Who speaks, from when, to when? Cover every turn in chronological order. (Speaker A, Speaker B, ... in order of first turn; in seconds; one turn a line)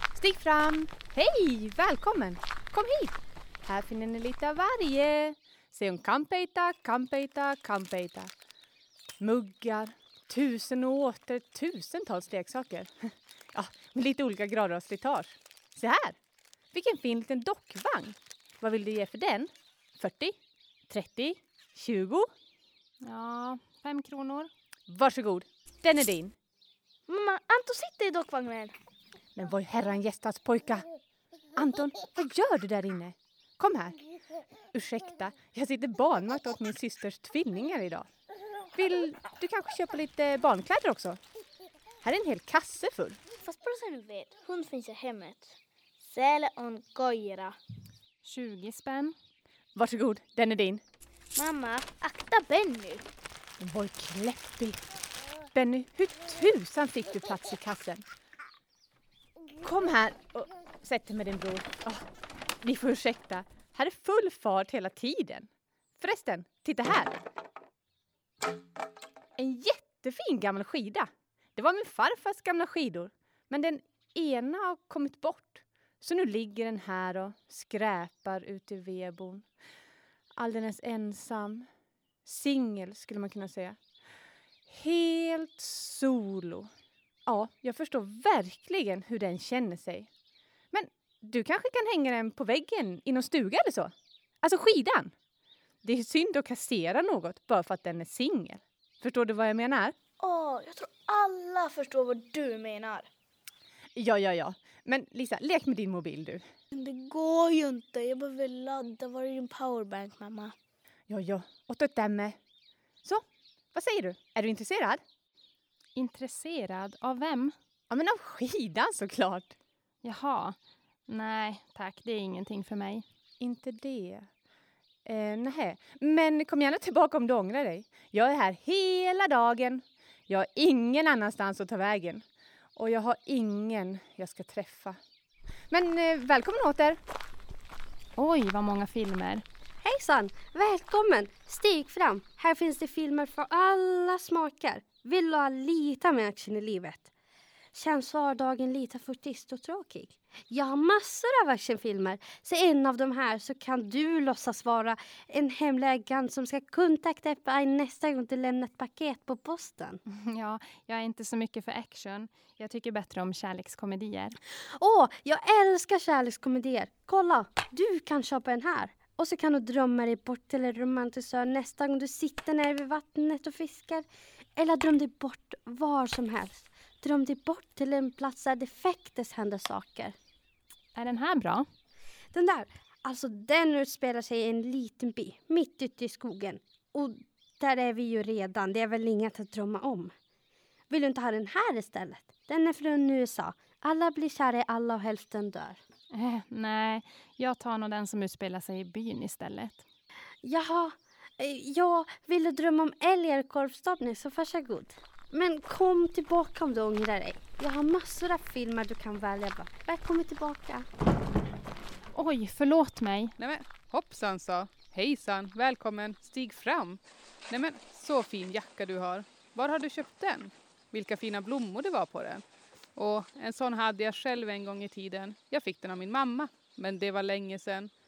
Speaker A: 0.1-8.3
Speaker A: 9.2-16.2
Speaker A: 16.7-22.3
Speaker B: 23.0-24.5
Speaker A: 24.9-26.4
Speaker C: 27.1-28.7
Speaker A: 29.4-30.9
Speaker A: 31.6-34.0
Speaker A: 34.7-38.1
Speaker A: 38.8-41.2
Speaker A: 42.0-43.2
Speaker C: 43.4-47.6
Speaker B: 48.2-49.2
Speaker A: 49.8-50.8
Speaker C: 51.4-53.1
Speaker A: 53.6-54.9
Speaker A: 55.5-58.0
Speaker A: 59.6-62.1
Speaker A: 62.6-67.2
Speaker A: 69.4-79.5
Speaker A: 80.4-81.7
Speaker A: 82.2-83.8
Speaker A: 84.7-86.7
Speaker A: 87.2-90.1
Speaker A: 90.7-95.1
Speaker A: 95.8-100.0
Speaker C: 100.2-103.1
Speaker A: 104.0-106.5
Speaker C: 106.7-110.5
Speaker A: 111.1-112.4
Speaker A: 113.0-115.0
Speaker B: 116.0-117.6
Speaker A: 117.9-119.5
Speaker B: 120.0-123.1
Speaker A: 123.4-124.3
Speaker A: 125.0-135.0
Speaker A: 135.7-137.0
Speaker B: 138.2-139.4
Speaker D: 139.8-147.1
Speaker D: 147.7-160.0
Speaker B: 160.1-164.4
Speaker D: 164.8-180.2
Speaker B: 180.9-181.7
Speaker D: 182.3-190.1
Speaker D: 190.9-195.8
Speaker B: 196.1-199.8
Speaker D: 200.4-210.9
Speaker B: 212.1-213.3
Speaker E: 213.4-222.4
Speaker E: 223.0-227.9